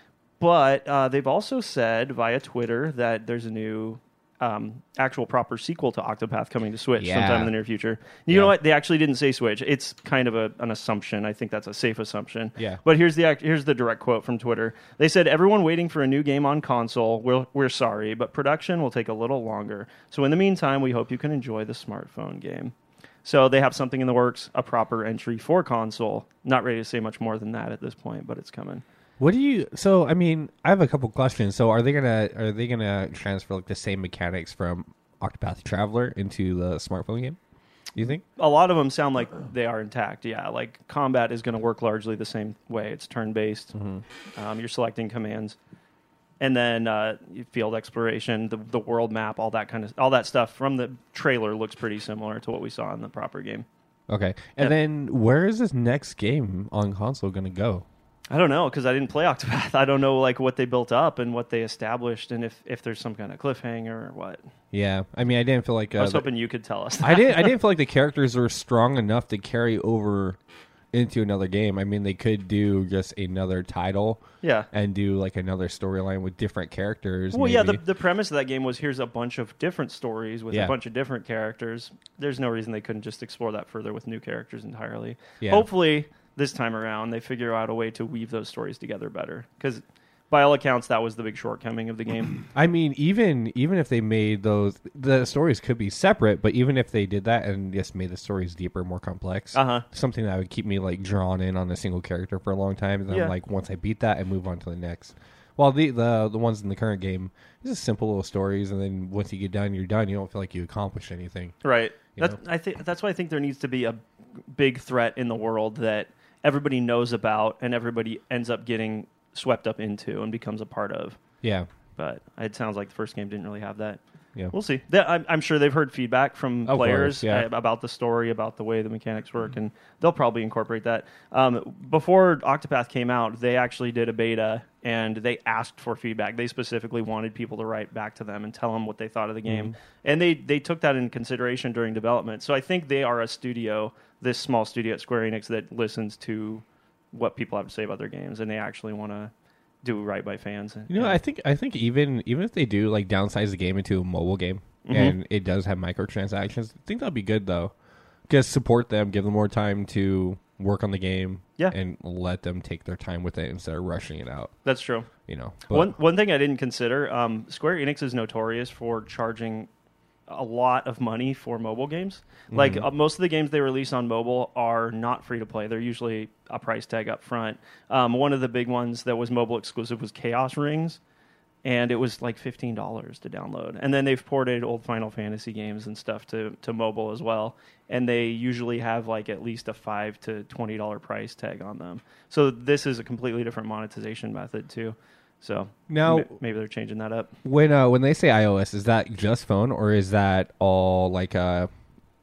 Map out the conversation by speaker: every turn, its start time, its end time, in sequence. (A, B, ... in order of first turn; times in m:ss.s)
0:00.4-0:28.8 A
0:07.0-0:07.5 B
0:08.3-0:08.6 B
0:29.2-0:37.4 B
0:38.0-0:38.2 B
0:38.4-0:43.7 A
0:43.7-0:44.0 B
0:44.4-0:45.6 A
0:46.4-0:53.7 A
0:54.1-0:57.8 B
0:58.3-1:04.4 A
1:04.7-1:06.3 B
1:06.0-1:07.5 A
1:07.0-1:10.4 B
1:10.9-1:17.8 B
1:14.4-1:14.7 A
1:17.3-1:32.4 A
1:25.4-1:25.7 B
1:32.5-1:51.6 B
1:39.5-1:39.9 A
1:43.1-1:43.3 A
1:51.6-2:01.2 A
2:01.4-2:01.7 B
2:02.0-2:04.0 A
2:04.5-2:29.3 A
2:06.7-2:07.5 B
2:19.5-2:19.7 B
2:29.8-2:31.2 A
2:30.9-2:37.7 B
2:34.8-2:35.2 A
2:38.3-2:44.5 B
2:44.6-2:45.1 A
2:45.3-2:46.0 B
2:45.7-2:49.7 A
2:50.3-3:01.0 A
2:52.5-2:52.9 B
3:01.6-3:17.3 A
3:15.9-3:16.4 B
3:17.4-3:21.7 B